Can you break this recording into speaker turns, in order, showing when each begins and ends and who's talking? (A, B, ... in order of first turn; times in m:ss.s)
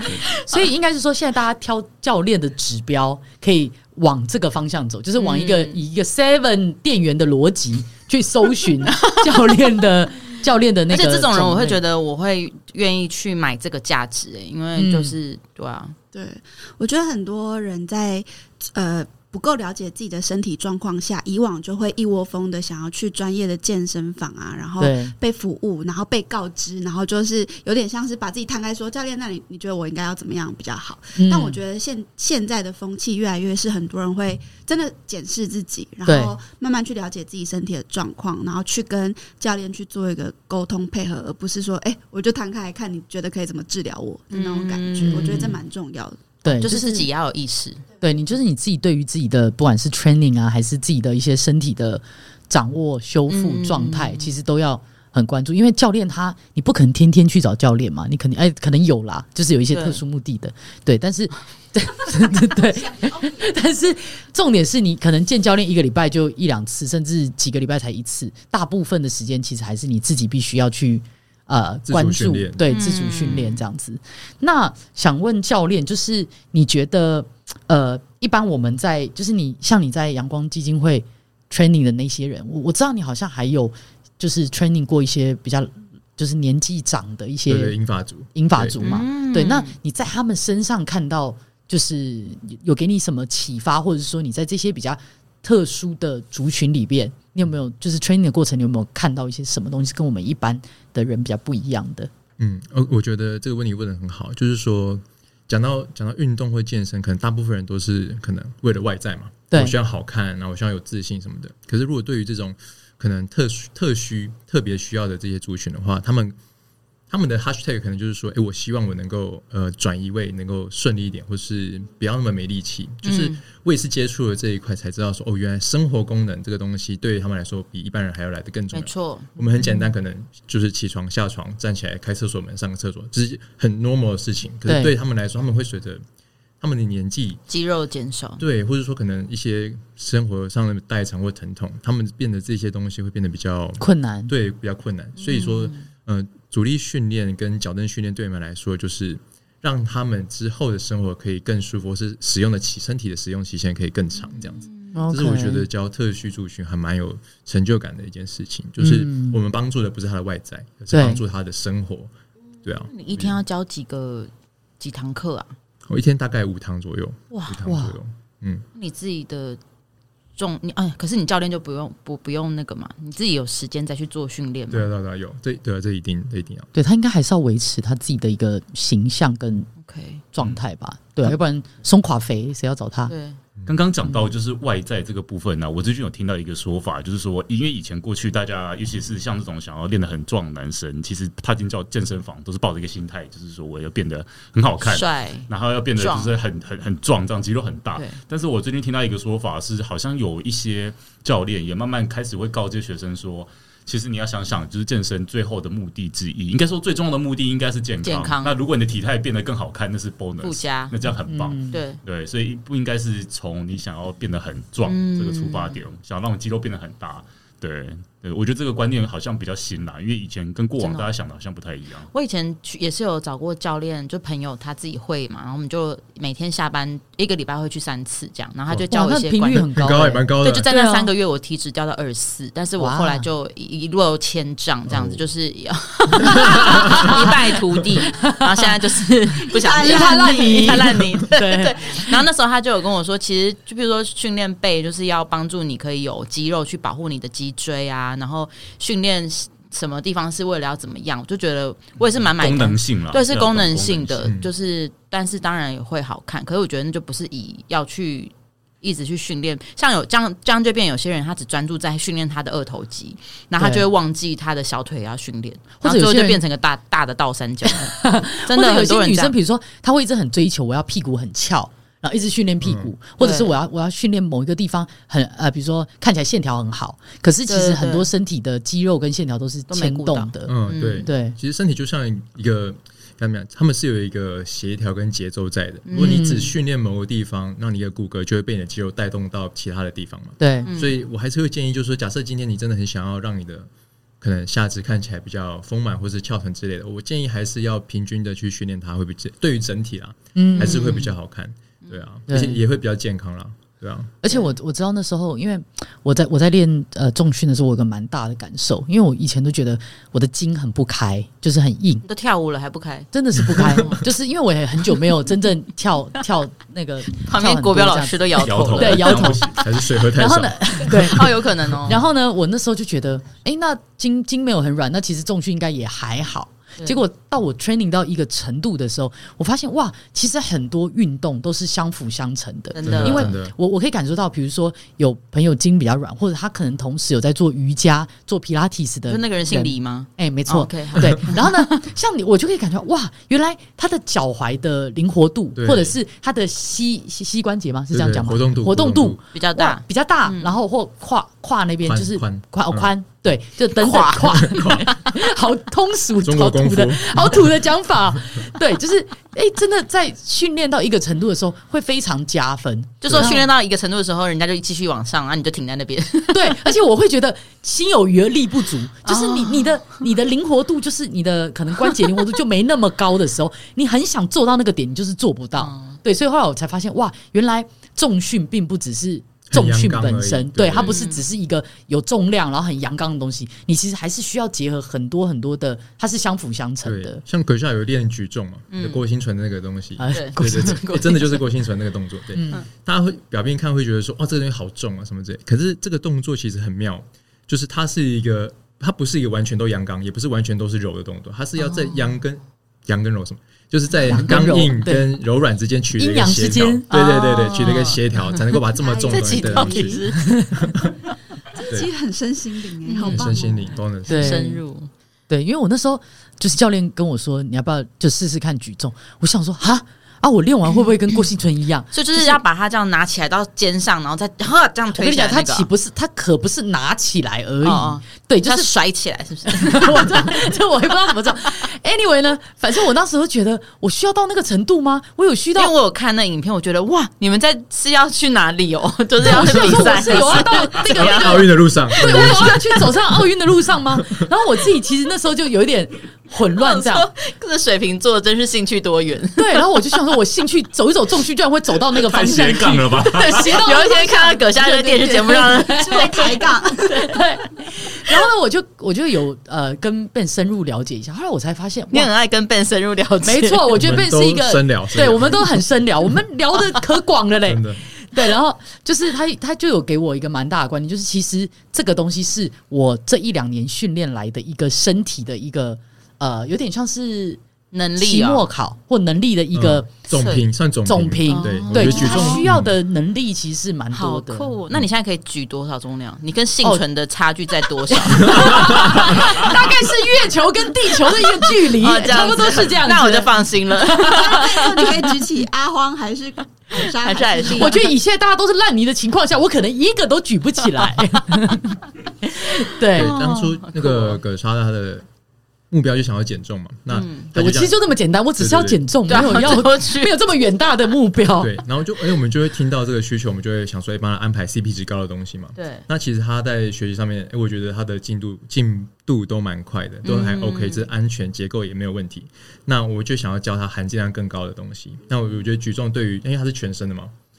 0:00.2-0:00.6 A
0:00.3-0:11.8 B
0:05.2-0:05.8 A
0:08.9-0:09.4 A
0:10.9-0:16.0 A
0:14.8-0:15.1 B
0:16.1-0:46.2 C
0:24.8-0:25.1 B
0:31.2-0:31.6 B
0:36.1-0:36.4 B
0:44.3-0:45.6 A
0:45.0-0:45.6 B
0:46.4-0:47.1 B
0:46.6-0:47.8 A
0:48.0-1:27.8 B
0:53.3-0:54.3 A
0:59.7-1:00.0 A
1:11.9-1:12.7 D
1:12.7-1:13.6 A
1:27.5-1:28.8 D
1:28.4-1:42.1 B
1:28.8-1:29.7 A
1:42.4-1:56.4 D
1:57.1-2:16.0 D
2:03.0-2:03.4 A
2:08.7-2:09.3 A
2:14.6-2:14.9 B
2:16.6-2:17.4 D
2:17.5-2:18.4 A
2:18.4-2:42.1 D
2:23.8-2:24.3 B
2:25.2-2:25.8 A
2:34.9-2:35.6 B
2:38.8-2:39.4 B
2:40.9-2:41.2 B
2:42.6-2:43.4 D
2:42.9-2:45.5 A
2:45.9-2:48.6 D
2:47.3-2:47.6 A
2:47.6-2:48.0 B
2:48.8-2:49.6 A
2:50.4-2:54.9 A
2:54.7-2:56.7 D
2:56.7-2:59.7 B
2:59.8-3:00.2 A
3:00.3-3:03.1 B
3:03.1-3:03.4 A
3:03.6-3:42.1 E
3:14.8-3:16.4 A
3:28.0-3:28.5 A
3:30.4-3:30.9 A
3:31.3-3:31.8 B
3:31.7-3:32.0 A
3:34.9-3:35.8 A
3:40.8-3:41.1 A
3:42.1-3:49.7 A
3:48.9-3:51.1 B
3:49.5-3:50.7 D
3:50.4-4:29.4 A
3:52.8-3:53.3 B
3:54.9-3:55.2 D
3:56.3-3:57.1 D
3:56.3-3:57.5 B
3:58.0-3:58.7 B
3:59.5-4:01.0 C
3:59.6-4:02.2 B
4:12.4-4:14.3 E
4:14.2-4:14.5 D
4:23.6-4:23.8 B
4:25.8-4:26.4 B
4:27.6-4:41.4 B
4:32.6-4:32.9 D
4:33.2-4:33.5 A
4:37.5-4:38.1 A
4:39.7-4:41.1 A
4:40.5-4:53.7 D
4:45.9-4:46.5 A
4:46.0-4:46.5 B
4:50.4-4:50.7 B
4:50.6-4:51.0 A
4:54.2-5:04.1 D
5:00.4-5:01.1 B
5:00.6-5:01.1 A
5:02.3-5:02.6 B
5:04.2-5:12.0 B
5:12.0-5:13.1 A
5:13.1-6:03.5 B
5:13.4-5:13.9 D
5:13.7-5:13.9 A
5:17.1-5:19.5 A
5:18.4-5:19.6 E
5:19.5-5:21.2 D
5:20.9-5:22.0 A
5:32.7-5:33.3 A
5:32.8-5:33.5 D
5:39.1-5:41.8 A
5:45.6-5:46.0 D
5:47.9-5:49.2 D
5:49.3-5:50.5 A
5:51.8-5:52.9 D
5:53.8-5:55.0 A
5:54.2-5:54.9 D
5:56.2-5:57.5 D
6:03.0-6:06.7 A
6:03.1-6:03.4 D
6:06.3-6:27.2 B
6:09.0-6:10.0 A
6:15.6-6:16.0 A
6:19.5-6:21.0 D
6:20.8-6:21.2 A
6:26.8-6:50.9 D
6:28.7-6:29.0 A
6:30.0-6:31.2 B
6:30.1-6:30.9 A
6:32.3-6:32.6 B
6:44.0-6:45.1 B
6:46.0-6:47.8 B
6:46.9-6:48.0 A
6:48.8-6:50.1 C
6:49.1-6:50.4 A
6:50.2-6:50.7 B
6:51.5-6:53.8 C
6:52.8-6:53.5 A
6:53.1-6:54.4 D
6:54.1-6:54.6 B
6:54.1-6:54.9 A
6:55.3-7:02.4 B
7:01.9-7:05.7 A
7:04.9-7:08.7 B
7:07.6-7:10.6 A
7:09.5-7:15.7 B
7:15.6-7:22.7 A
7:19.2-7:27.1 B
7:19.3-7:19.9 D
7:20.9-7:22.9 D
7:24.0-7:24.3 D
7:26.6-7:29.8 A
7:29.4-7:42.1 B
7:31.9-7:33.6 E
7:33.0-7:36.4 A
7:35.8-7:37.1 C
7:41.9-7:43.8 A
7:43.2-7:57.4 B
7:43.8-7:45.6 D
7:47.5-7:47.8 D
7:57.7-7:58.5 A
7:58.0-7:59.9 B
7:59.5-8:02.8 D
8:00.1-8:00.5 A
8:00.8-8:04.5 B
8:01.3-8:02.4 A
8:03.9-8:09.8 A
8:07.9-8:15.1 B
8:08.3-8:08.9 D
8:11.1-8:15.0 A
8:14.3-8:17.8 C
8:16.8-8:17.8 A
8:17.5-8:23.2 B
8:20.9-8:21.6 A
8:22.9-8:24.2 A
8:22.9-8:25.1 D
8:25.7-8:27.8 D
8:26.9-8:27.3 A
8:27.3-8:31.6 B
8:28.4-8:29.6 D
8:29.1-8:30.2 A
8:31.4-8:47.1 D
8:35.6-8:35.8 A
8:40.0-8:40.9 A